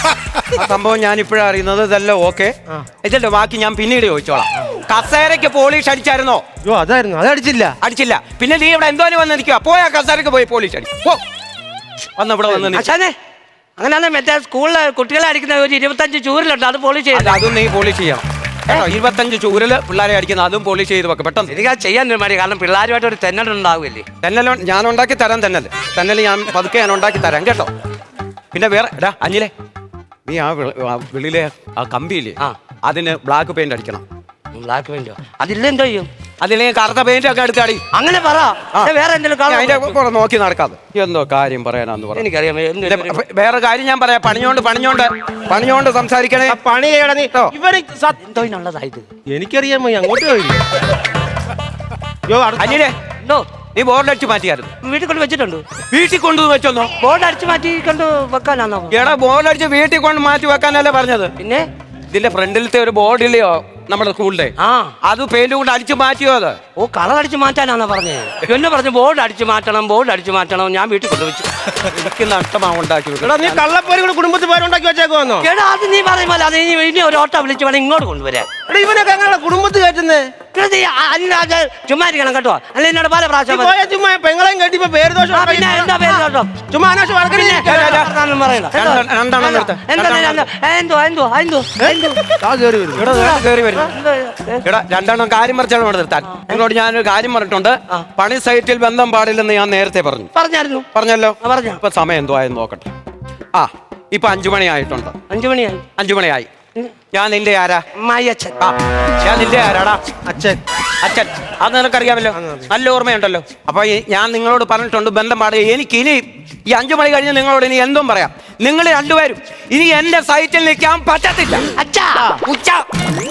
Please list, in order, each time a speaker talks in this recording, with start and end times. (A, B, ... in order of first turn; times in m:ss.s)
0:00.6-0:06.4 A
0:06.6-0:07.8 B
0:07.8-0:11.2 A
0:12.2-0:12.9 A
0:12.5-0:13.1 C
0:13.8-0:17.4 C
0:17.1-0:21.5 A
0:21.5-0:24.0 C
0:24.2-0:27.7 A
0:28.5-0:29.5 A
0:30.2-0:34.0 A
0:34.5-0:36.1 C
0:36.4-0:37.8 A
0:37.9-0:40.0 C
0:39.5-0:42.2 A
0:42.1-0:43.2 C
0:42.8-0:46.6 A
0:46.4-0:48.2 B
0:48.2-0:49.1 C
0:49.3-0:50.6 B
0:52.3-0:52.8 B
0:52.6-0:52.9 A
0:53.7-0:54.7 A
0:54.8-0:55.6 C
0:55.9-0:56.9 A
0:57.0-0:59.0 C
0:58.9-1:01.3 A
1:01.4-1:01.6 C
1:02.1-1:04.5 A
1:04.6-1:04.9 C
1:05.0-1:06.6 A
1:06.8-1:11.5 C
1:11.8-1:13.6 A
1:13.2-1:15.5 B
1:15.4-1:18.5 C
1:18.7-1:20.2 B
1:20.5-1:23.7 C
1:23.5-1:28.0 B
1:25.3-1:26.5 C
1:27.3-1:32.2 C
1:27.5-1:28.1 A
1:28.7-1:30.4 A
1:31.8-1:33.1 B
1:33.0-1:33.9 A
1:33.1-1:34.6 C
1:34.6-1:40.3 A
1:36.2-1:36.6 C
1:40.3-1:40.8 C
1:40.9-1:42.9 A
1:41.4-1:41.8 C
1:43.5-1:45.1 A
1:45.3-1:45.8 C
1:46.0-1:46.5 A
1:47.1-1:47.8 A
1:48.0-1:48.6 C
1:48.6-1:50.0 A
1:50.2-1:50.6 B
1:51.0-2:01.7 A
1:52.3-1:52.7 B
2:01.8-2:02.8 C